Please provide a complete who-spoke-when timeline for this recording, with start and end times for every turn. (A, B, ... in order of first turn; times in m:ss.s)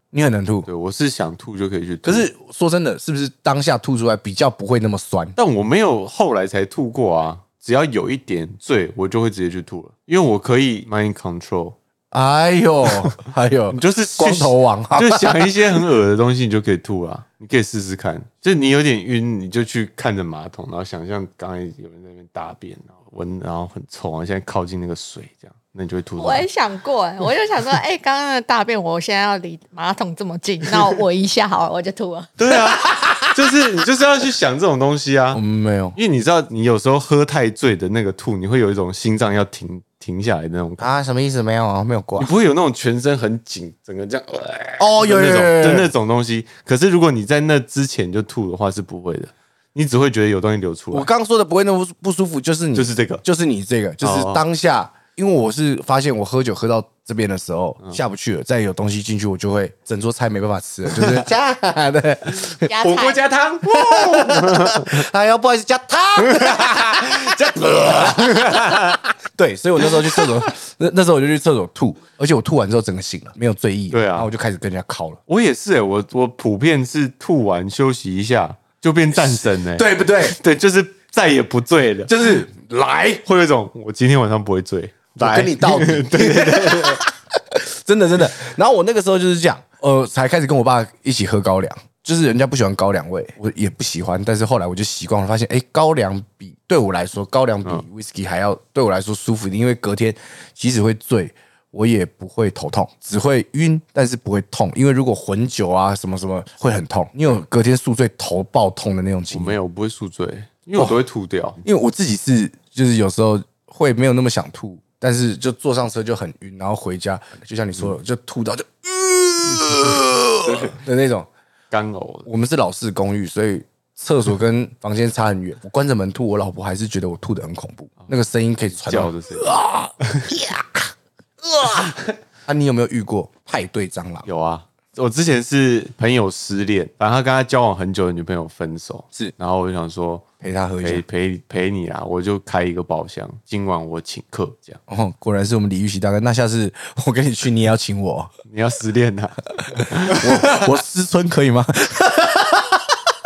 0:00.1-0:00.7 A
0:00.7-0:02.3 B
0:02.0-0:05.4 A
0:05.4-0:11.8 B
0:12.1-0:15.6 A
0:13.7-0:26.5 B
0:26.2-0:32.3 C
0:32.4-0:35.4 B
0:35.3-0:36.0 A
0:36.0-0:40.9 B
0:40.8-0:42.3 A
0:42.2-0:51.1 B
0:44.8-0:45.9 A
0:50.9-1:02.7 A
0:52.7-0:53.2 B
0:54.0-0:54.4 B
1:02.4-1:05.0 B
1:02.7-1:03.2 C
1:03.7-1:15.2 A
1:06.2-1:09.0 B
1:10.0-1:10.3 B
1:13.9-1:14.3 B
1:15.3-1:22.4 B
1:19.1-1:20.4 A
1:22.1-1:23.2 A
1:23.2-1:27.0 B
1:25.2-1:49.6 A
1:49.3-1:51.6 B
1:51.6-2:01.3 A
2:00.4-2:00.8 B
2:01.7-2:02.3 B
2:02.3-2:10.9 A
2:08.8-2:09.6 B
2:11.4-2:11.9 A
2:12.5-2:14.3 A
2:14.2-2:20.2 B
2:20.4-2:21.0 A
2:20.8-2:24.8 B
2:24.9-2:28.3 A
2:28.5-2:30.7 B
2:29.8-2:33.0 A